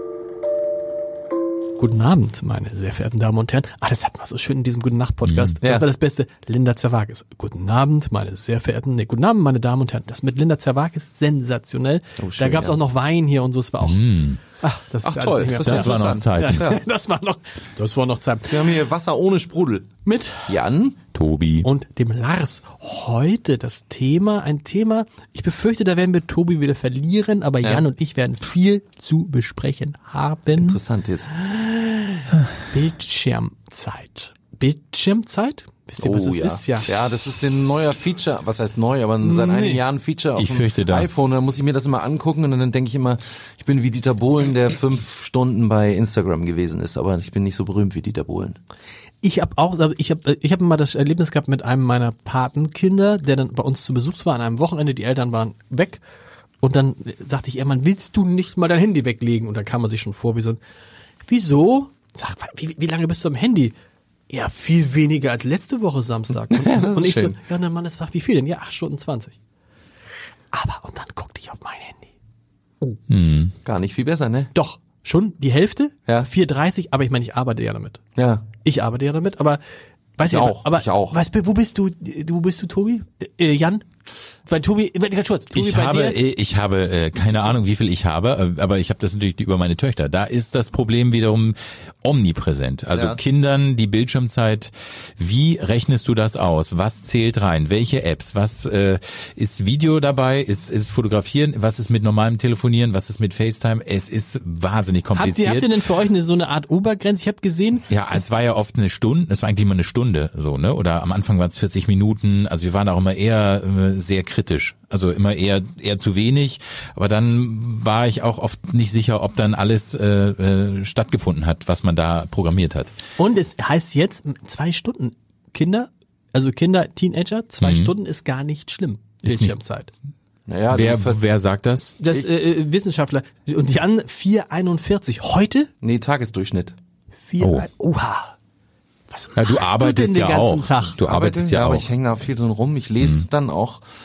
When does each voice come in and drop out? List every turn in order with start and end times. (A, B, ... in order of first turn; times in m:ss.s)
0:01.8-0:18.8 A
0:05.3-0:05.6 B
0:05.6-0:05.9 C
0:12.2-0:12.8 C
0:13.8-0:14.4 B
0:15.0-0:16.8 C
0:15.7-0:16.8 B
0:18.5-0:19.9 C
0:20.0-0:20.5 A
0:20.5-0:21.0 C
0:21.1-0:21.7 B
0:21.6-0:30.8 A
0:30.6-0:31.4 C
0:31.4-0:37.0 A
0:36.0-0:48.6 C
0:39.2-0:39.8 A
0:40.4-0:41.1 B
0:49.2-0:56.0 A
0:56.6-1:00.6 A
1:01.2-1:03.7 A
1:04.3-1:09.4 A
1:06.5-1:07.4 C
1:10.5-1:12.1 A
1:13.1-1:13.5 B
1:13.6-1:14.5 C
1:14.5-1:18.0 A
1:18.2-1:18.4 C
1:18.6-1:19.6 A
1:20.2-1:23.8 A
1:20.2-1:21.2 C
1:24.4-1:26.2 A
1:25.5-1:45.8 B
1:32.9-1:33.2 C
1:45.1-1:47.9 A
1:47.9-2:02.9 B
2:03.2-2:09.9 A
2:07.6-2:07.9 B
2:09.2-2:09.6 B
2:10.5-2:11.2 C
2:10.7-2:12.0 B
2:12.0-2:15.7 A
2:15.8-2:16.8 C
2:17.2-2:18.3 A
2:17.4-2:17.7 B
2:19.1-2:21.0 A
2:19.4-2:21.9 B
2:21.0-2:23.8 C
2:23.0-2:23.3 B